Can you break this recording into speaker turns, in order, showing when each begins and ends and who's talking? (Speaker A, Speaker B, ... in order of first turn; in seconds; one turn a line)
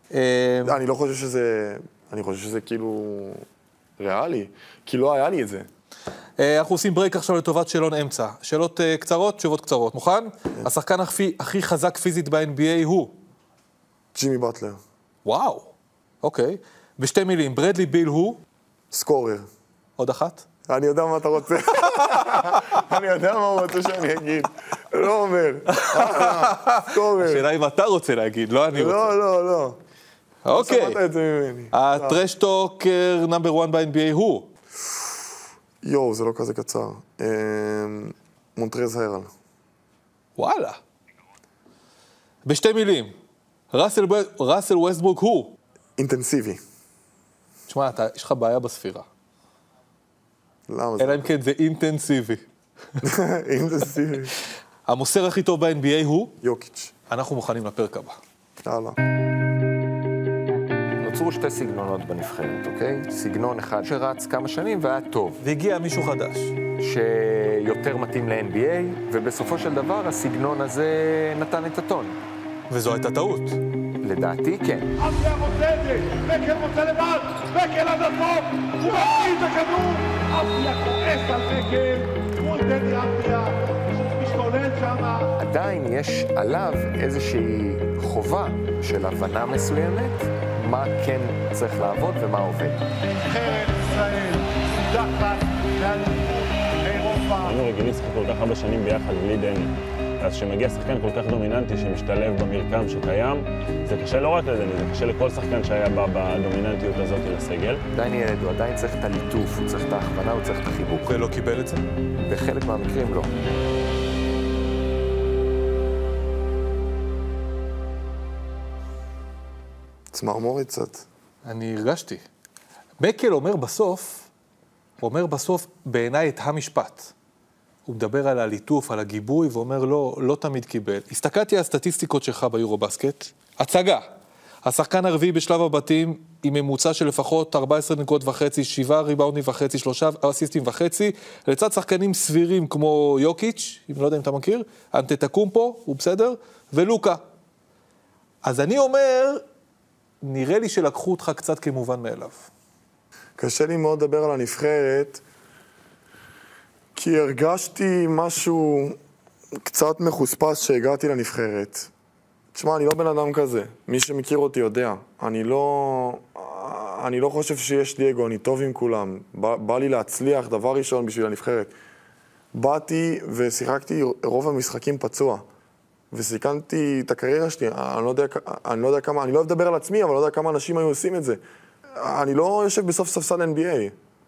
Speaker A: 0.1-0.8
Speaker B: 0.6-3.4
Speaker B: 4.0-5.7
Speaker A: 6.4-13.1
Speaker B: 14.1-14.8
Speaker A: 15.2-15.7
Speaker A: 16.2-18.4
Speaker B: 18.9-19.5
Speaker A: 20.0-20.4
Speaker B: 20.7-27.5
Speaker A: 25.7-29.1
Speaker B: 28.7-29.8
Speaker A: 30.4-31.0
Speaker B: 30.5-32.2
Speaker A: 31.7-34.5
Speaker B: 34.8-35.2
Speaker B: 35.8-39.3
Speaker A: 40.4-40.8
Speaker A: 42.4-43.1
Speaker A: 43.7-45.5
Speaker B: 46.0-46.6
Speaker A: 47.7-49.0
Speaker B: 50.7-51.3
Speaker A: 51.0-52.4
Speaker B: 53.0-54.3
Speaker A: 54.9-56.3
Speaker B: 56.4-56.9
Speaker A: 57.1-58.2
Speaker B: 58.6-59.0
Speaker C: 61.0-65.4
Speaker A: 65.4-66.5
Speaker C: 66.8-72.2
Speaker A: 72.7-73.6
Speaker C: 74.0-74.9
Speaker D: 75.0-85.4
Speaker C: 85.4-92.8
Speaker D: 93.2-97.6
Speaker E: 97.4-107.8
Speaker C: 107.9-111.2
Speaker A: 111.0-111.8
Speaker C: 112.2-113.3
Speaker B: 120.1-121.0
Speaker A: 121.4-122.2
Speaker A: 123.0-124.3
Speaker A: 125.0-127.1
Speaker A: 127.8-134.1
Speaker A: 134.6-147.2
Speaker A: 148.4-149.4
Speaker A: 150.2-152.5
Speaker B: 153.4-155.2
Speaker B: 156.9-159.0
Speaker B: 159.6-161.9
Speaker B: 162.5-171.7
Speaker B: 172.5-175.4
Speaker B: 176.1-183.9